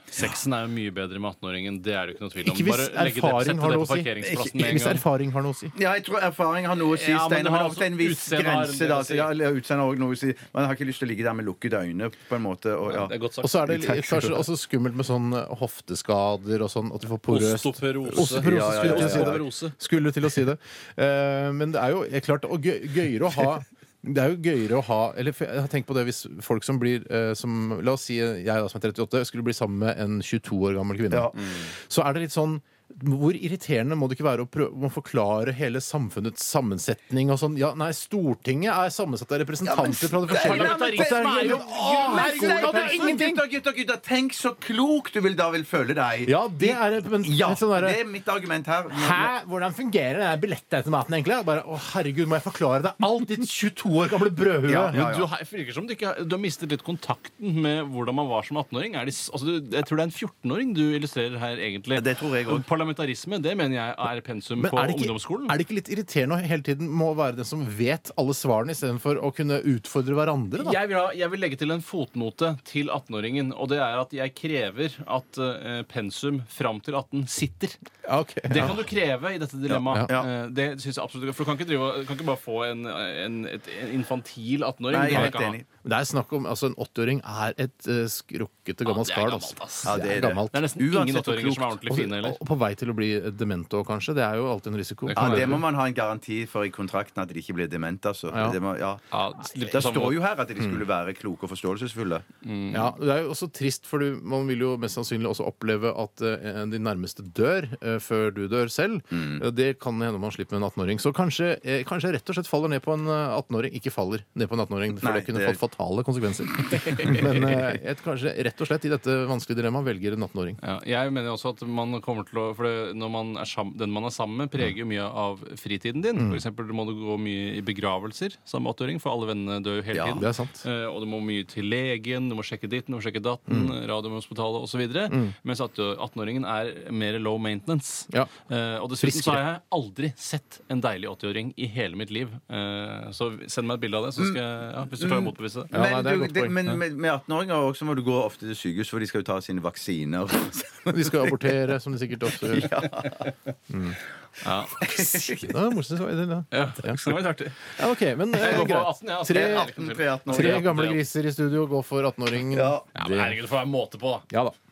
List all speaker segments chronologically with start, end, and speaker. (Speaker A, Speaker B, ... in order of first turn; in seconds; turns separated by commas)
Speaker A: 0.1-5.0, Speaker B: 2.4-5.7, Speaker C: 5.7-13.1, Speaker A: 6.8-9.3, Speaker A: 12.9-13.7, Speaker B: 13.4-43.4, Speaker C: 13.7-14.4, Speaker A: 17.3-19.7, Speaker C: 18.1-19.4, Speaker C: 31.1-31.7, Speaker C: 39.6-49.3, Speaker A: 40.3-43.2, Speaker B: 46.2-48.0, Speaker B: 48.9-55.0, Speaker C: 54.6-55.3, Speaker A: 54.9-65.6, Speaker C: 61.9-62.6, Speaker B: 64.6-70.8, Speaker A: 70.6-77.8, Speaker B: 78.0-78.9, Speaker A: 78.5-85.6, Speaker C: 79.7-80.3, Speaker B: 79.8-80.1, Speaker C: 84.9-85.6, Speaker B: 85.1-90.6, Speaker A: 88.8-92.4, Speaker C: 89.8-91.8, Speaker B: 91.9-95.6, Speaker A: 95.0-95.6, Speaker C: 95.2-99.0, Speaker B: 98.3-98.6, Speaker A: 99.1-100.2, Speaker C: 99.7-102.2, Speaker A: 102.4-102.9, Speaker B: 102.7-120.6, Speaker C: 109.1-109.4, Speaker C: 115.0-115.6, Speaker A: 116.7-117.8, Speaker A: 120.6-145.7, Speaker B: 126.2-126.4, Speaker C: 129.9-130.2, Speaker B: 130.1-130.6, Speaker B: 133.5-133.8, Speaker B: 135.1-135.3, Speaker B: 139.0-139.4, Speaker C: 145.0-151.6, Speaker B: 145.7-146.6, Speaker B: 150.9-152.7, Speaker C: 152.3-153.3, Speaker B: 153.7-154.0, Speaker A: 154.4-155.0, Speaker C: 154.8-155.5, Speaker B: 155.4-159.7, Speaker A: 156.5-157.8, Speaker A: 158.3-161.0, Speaker C: 159.3-160.7, Speaker B: 160.3-163.4, Speaker C: 162.5-162.9, Speaker A: 162.9-164.3, Speaker B: 164.3-164.5